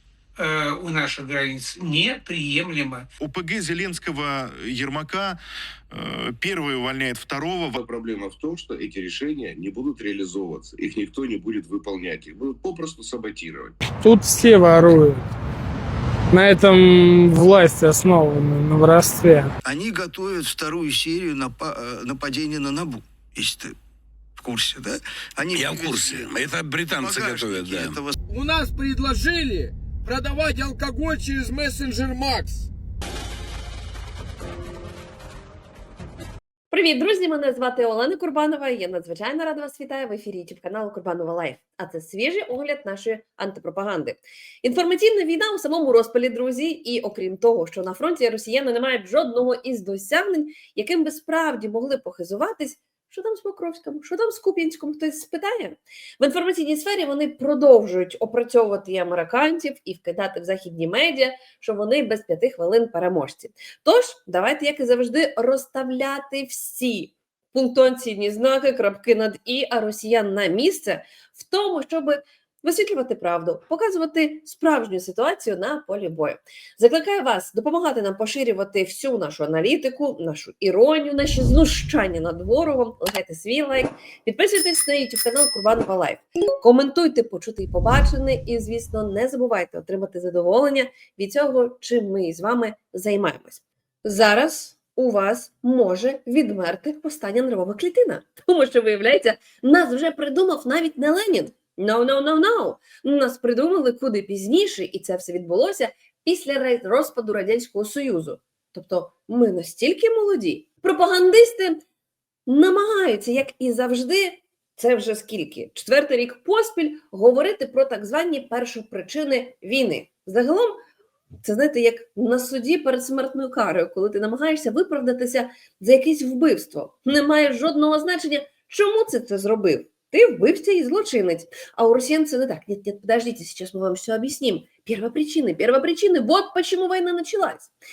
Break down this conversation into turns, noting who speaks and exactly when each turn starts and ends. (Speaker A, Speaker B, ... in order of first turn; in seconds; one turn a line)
Speaker A: 0.4-3.1
Speaker B: 3.2-5.4
Speaker B: 5.9-7.8
Speaker C: 7.8-13.8
Speaker D: 14.0-15.2
Speaker D: 16.3-19.5
Speaker E: 19.6-23.8
Speaker E: 24.4-26.3
Speaker F: 25.6-28.0
Speaker E: 27.0-28.2
Speaker G: 28.3-32.7
Speaker H: 36.7-111.8
Speaker H: 112.5-120.8
Speaker H: 121.4-137.7